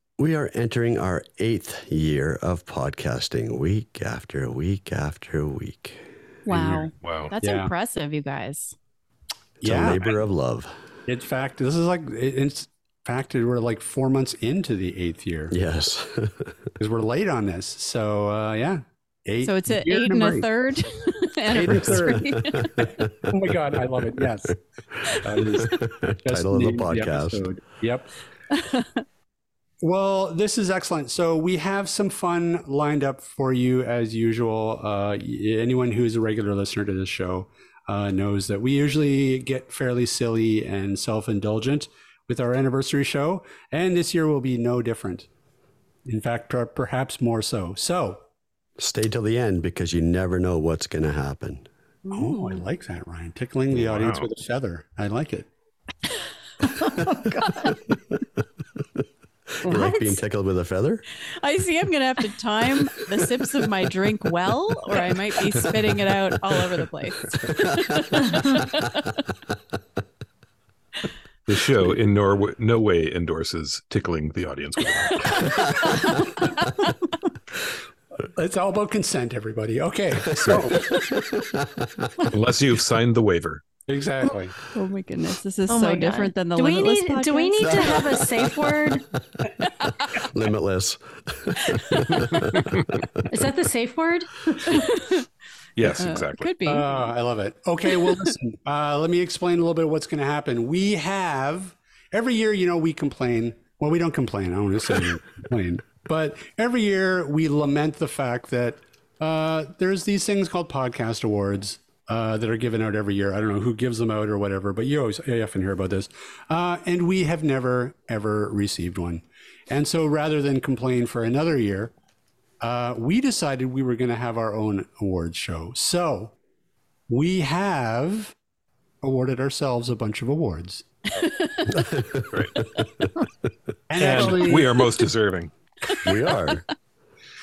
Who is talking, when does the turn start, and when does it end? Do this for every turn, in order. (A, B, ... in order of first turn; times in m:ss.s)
0:00.2-0:06.1 A
0:06.4-0:08.7 B
0:06.5-0:07.7 C
0:07.0-0:07.3 D
0:09.6-0:10.7 A
0:09.6-0:10.2 C
0:11.1-0:15.5 C
0:15.5-0:16.6 A
0:16.8-0:20.8 C
0:19.4-0:22.9 B
0:21.5-0:24.6 C
0:21.7-0:23.3 A
0:25.2-0:28.1 C
0:25.4-0:27.4 A
0:28.5-0:29.0 B
0:29.8-0:45.3 C
0:46.0-0:48.2 C
0:48.8-0:51.7 A
0:52.0-0:52.6 B
0:52.1-0:55.5 C
0:53.7-0:54.3 D
0:56.7-0:57.7 E
0:57.6-0:58.2 A
0:59.6-1:01.0 A
0:59.6-1:00.2 E
1:01.4-1:09.1 B
1:07.5-1:08.6 A
1:11.5-1:15.6 D
1:15.1-1:16.9 B
1:18.2-1:21.1 C
1:20.3-1:22.1 A
1:22.3-1:23.6 D
1:23.9-1:24.6 C
1:24.7-1:28.0 B
1:25.7-1:29.0 E
1:27.6-1:28.9 A
1:30.0-1:33.0 A
1:31.7-1:32.2 B
1:33.3-1:34.9 E
1:34.6-1:35.2 B
1:35.8-1:36.5 D
1:35.9-1:36.9 B
1:36.6-2:01.9 C
1:37.9-1:38.3 B
2:02.6-2:06.3 C
2:07.1-2:08.4 C
2:09.0-2:10.9 C
2:11.2-2:11.7 B
2:11.7-2:13.1 A
2:13.9-2:14.9 C
2:14.0-2:15.5 D
2:16.0-2:16.6 A